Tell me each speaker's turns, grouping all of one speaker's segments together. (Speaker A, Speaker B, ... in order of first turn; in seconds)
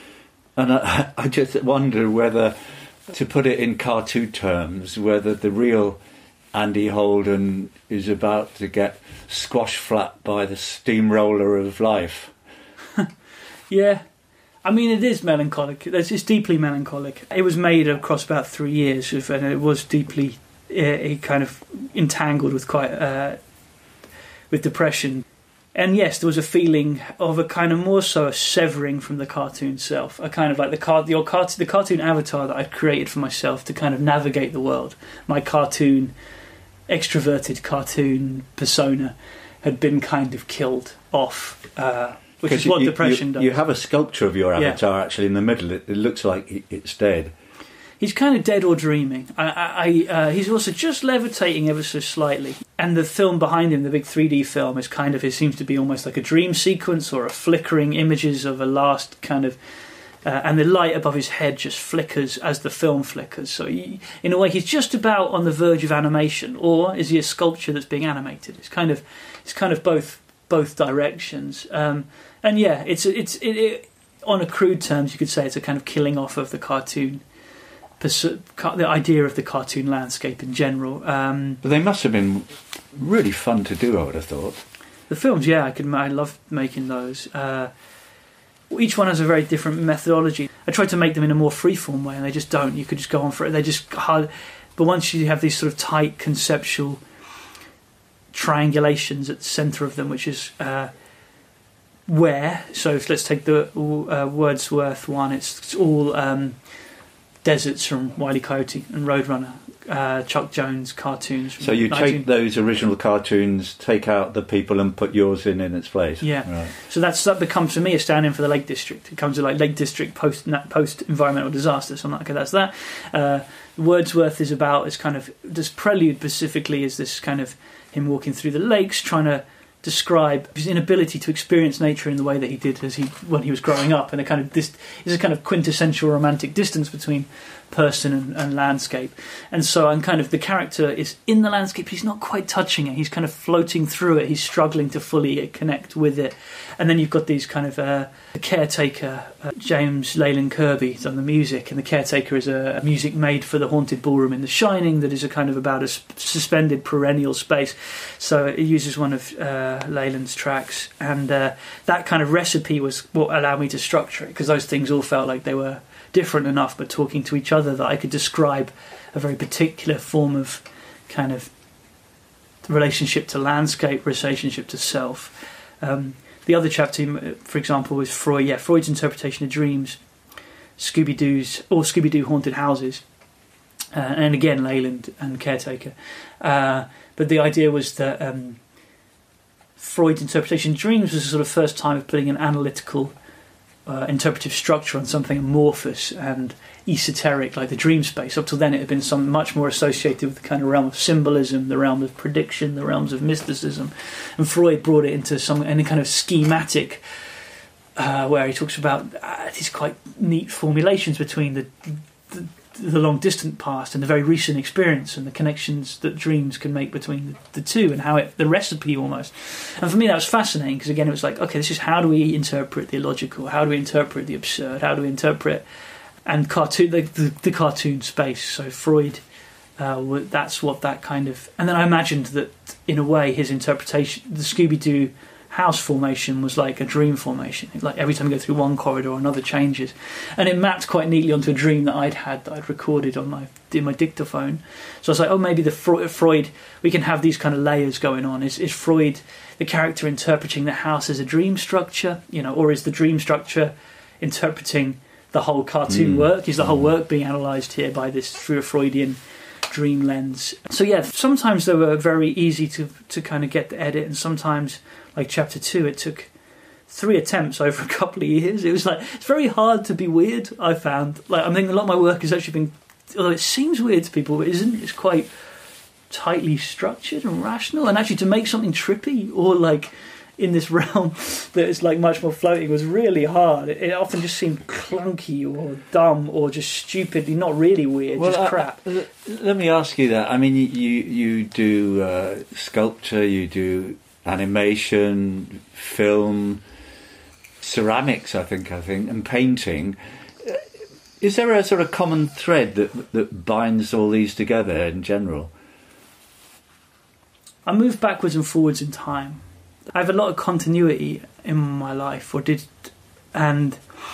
Speaker A: 0.6-2.5, 3.1-6.0, 6.5-12.3, 42.5-47.3, 81.6-84.6, 111.6-116.7, 255.9-256.2, 288.2-296.6, 297.6-300.6, 301.2-305.5
Speaker B: 13.7-14.0, 14.7-23.4, 24.5-36.1, 36.9-43.5, 48.0-59.6, 60.2-77.2, 78.0-81.6, 85.1-87.7, 88.7-97.0, 98.3-100.9, 102.1-106.6, 107.4-112.3, 116.2-171.5, 172.7-180.0, 180.8-183.1, 183.9-188.6, 189.8-193.1, 193.9-207.0, 208.0-225.6, 226.3-229.2, 229.8-266.3, 266.9-275.3, 276.1-288.8, 307.7-309.4, 309.9-313.8